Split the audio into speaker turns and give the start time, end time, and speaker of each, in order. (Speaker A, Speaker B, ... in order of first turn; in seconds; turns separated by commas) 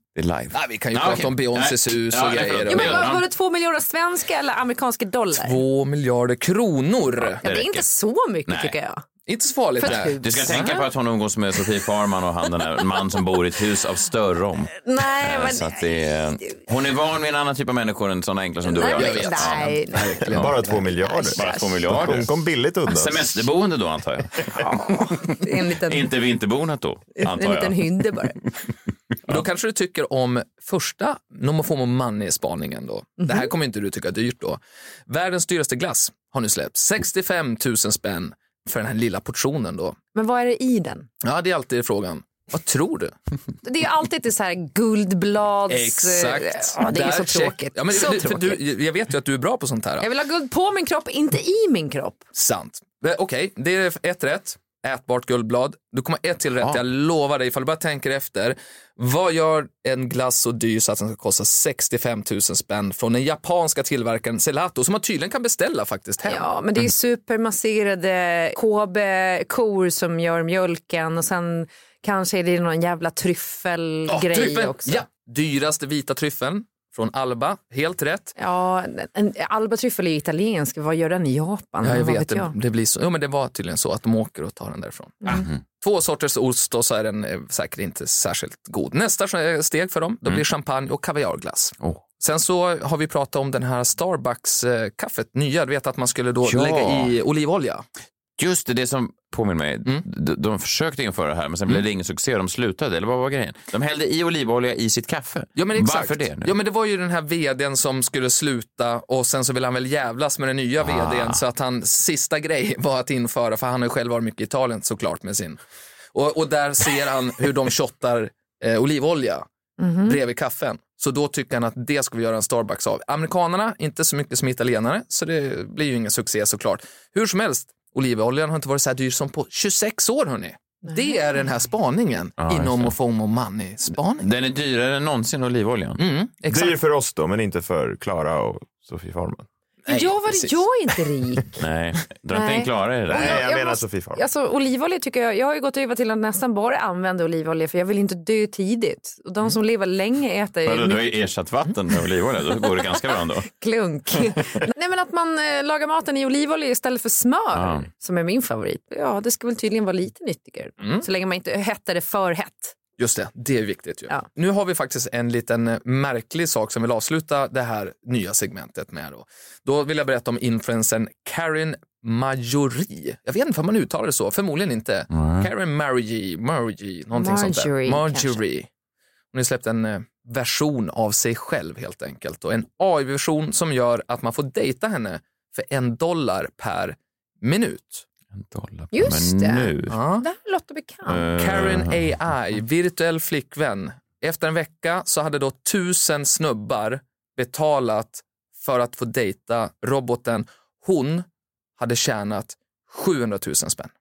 Speaker A: 0.1-3.2, Speaker B: 0.5-3.1, Speaker C: 2.7-5.6, Speaker B: 5.4-7.4, Speaker A: 7.2-7.9, Speaker C: 7.4-9.0, Speaker A: 8.5-8.7, Speaker B: 9.3-10.7, Speaker C: 9.8-10.9, Speaker A: 9.8-19.7, Speaker C: 14.8-15.8, Speaker C: 18.6-20.2, Speaker B: 18.9-20.8, Speaker D: 20.2-23.5, Speaker C: 21.0-22.0, Speaker A: 21.3-27.8, Speaker C: 24.5-26.1, Speaker C: 27.2-28.4, Speaker B: 29.3-40.0, Speaker C: 33.2-33.5, Speaker C: 40.1-41.1, Speaker B: 41.2-43.1, Speaker C: 43.6-48.6, Speaker B: 45.7-50.1, Speaker C: 50.0-52.2, Speaker B: 52.3-66.5, Speaker C: 66.3-75.0, Speaker B: 74.1-78.3, Speaker C: 78.4-82.5, Speaker B: 81.8-97.8, Speaker A: 85.3-85.6, Speaker A: 96.4-97.1, Speaker A: 98.4-106.5, Speaker B: 105.5-115.6, Speaker A: 110.8-111.4, Speaker B: 116.1-119.5, Speaker C: 119.8-120.2, Speaker B: 120.0-134.3, Speaker C: 130.9-131.4, Speaker A: 132.4-132.9, Speaker A: 134.2-136.0, Speaker B: 136.0-136.8, Speaker D: 136.5-139.5, Speaker B: 139.8-140.6, Speaker C: 139.9-141.6, Speaker A: 141.6-143.4, Speaker C: 142.3-151.1, Speaker D: 143.1-144.2, Speaker A: 150.6-153.5, Speaker C: 153.5-162.7, Speaker A: 157.5-157.9, Speaker B: 160.8-161.1, Speaker B: 163.0-178.7, Speaker A: 175.1-175.5, Speaker C: 177.1-178.4, Speaker B: 179.3-188.0, Speaker A: 188.3-190.0, Speaker C: 188.9-191.2, Speaker B: 189.9-190.2, Speaker A: 191.0-192.0, Speaker B: 191.3-201.2, Speaker B: 201.8-203.9